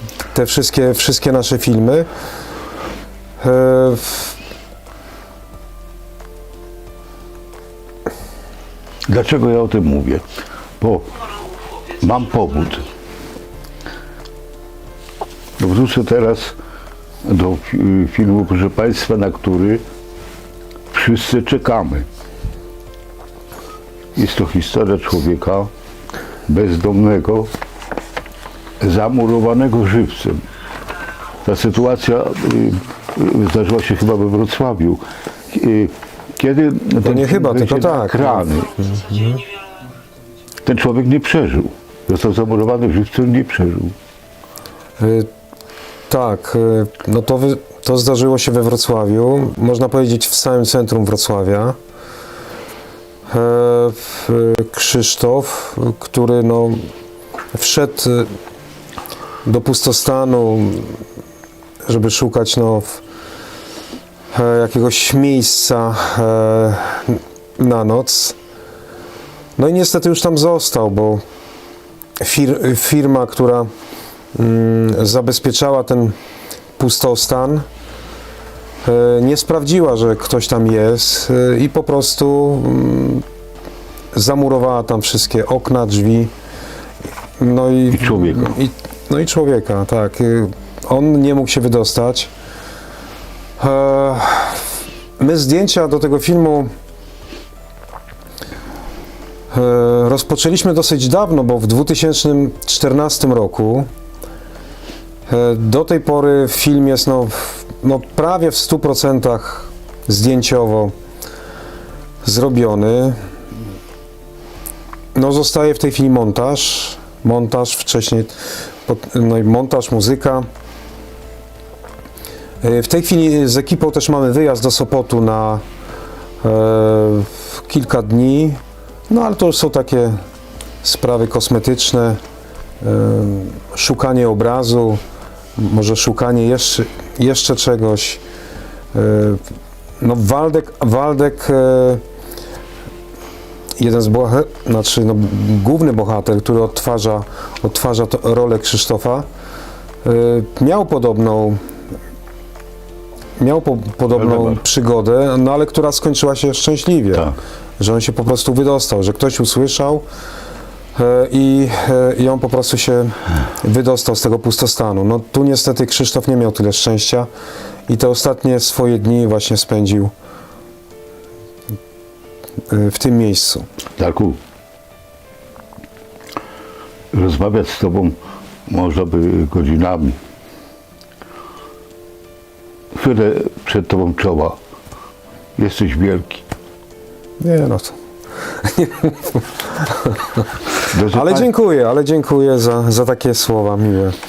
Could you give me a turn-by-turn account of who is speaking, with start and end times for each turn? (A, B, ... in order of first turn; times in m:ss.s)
0:00.3-0:02.1 A
0:03.4-0:04.4 A
0:09.1-0:10.2 B
0:10.8-0:11.1 B
0:12.0-0:12.9 B
0:15.6-0:16.6 B
0:17.2-0:19.8 B
0:20.9-0:22.1 B
0:24.2-0:25.7 B
0:26.5-0:27.5 B
0:28.8-0:30.4 B
0:31.4-0:38.7 B
0:37.0-0:39.5 A
0:40.6-0:44.0 B
0:45.0-0:45.3 A
0:46.1-0:51.8 A
0:53.3-0:56.9 A
0:57.5-0:58.3 A
0:59.4-1:01.0 A
1:01.8-1:03.0 A
1:04.3-1:08.4 A
1:09.6-1:11.2 A
1:12.2-1:13.7 A
1:14.3-1:16.2 A
1:16.8-1:17.7 A
1:18.8-1:23.2 A
1:24.1-1:26.3 A
1:27.4-1:32.3 A
1:27.9-1:28.5 B
1:33.6-1:36.7 A
1:39.5-1:43.9 A
1:45.3-1:50.9 A
1:52.2-1:53.2 A
1:55.1-1:58.4 A
1:58.9-2:00.4 A
2:02.6-2:05.6 A
2:06.4-2:10.2 A
2:10.8-2:12.2 A
2:12.8-2:15.0 A
2:15.6-2:18.2 A
2:18.9-2:19.4 A
2:20.0-2:22.0 A
2:23.8-2:29.3 A
2:30.0-2:31.6 A
2:33.4-2:40.0 A
2:34.1-2:34.6 B
2:41.0-2:47.3 A
2:47.9-2:50.1 A
2:52.7-2:53.7 A
2:54.0-2:54.4 B
2:57.1-3:00.2 B
3:03.0-3:04.6 B
3:05.6-3:06.4 B
3:07.4-3:08.0 A
3:08.6-3:10.4 A
3:10.9-3:11.5 B
3:11.1-3:14.2 A